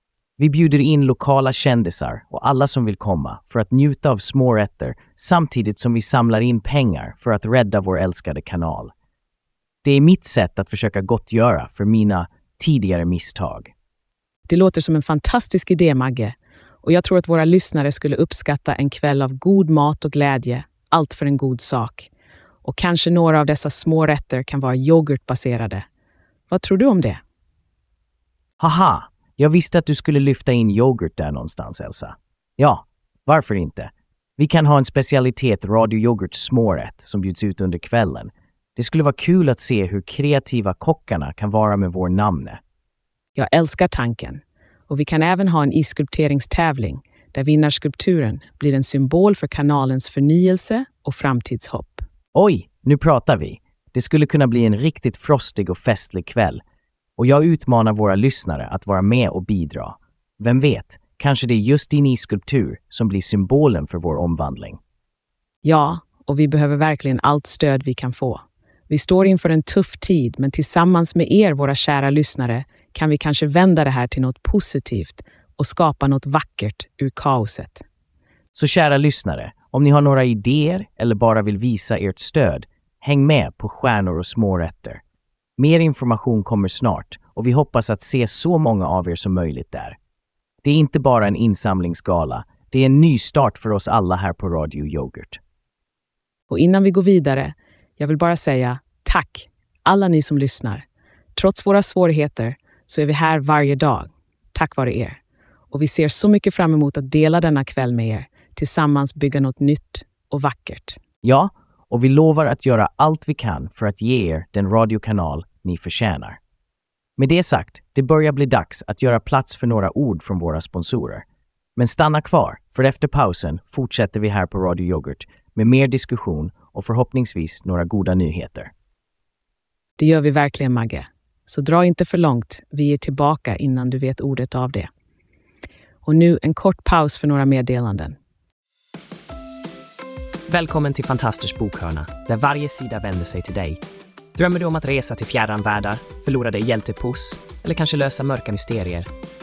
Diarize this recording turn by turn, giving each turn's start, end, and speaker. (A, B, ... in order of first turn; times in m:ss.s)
0:00.4-0:08.9 A
0:09.8-0:13.7 A
0:14.5-0:22.1 B
0:22.6-0:25.9 B
0:26.5-0:27.2 B
0:28.6-0:42.6 A
0:43.4-0:52.0 B
0:52.3-0:56.6 A
0:57.2-1:04.8 A
1:05.6-1:17.8 B
1:18.5-1:25.0 A
1:25.6-1:30.0 A
1:30.6-1:35.4 A
1:36.5-1:40.8 B
1:41.4-1:45.2 B
1:45.7-1:51.0 B
1:51.2-1:56.4 A
1:57.2-2:01.2 A
2:01.8-2:08.7 A
2:10.0-2:14.9 B
2:16.0-2:18.2 B
2:20.5-2:23.8 C
2:24.4-2:29.1 C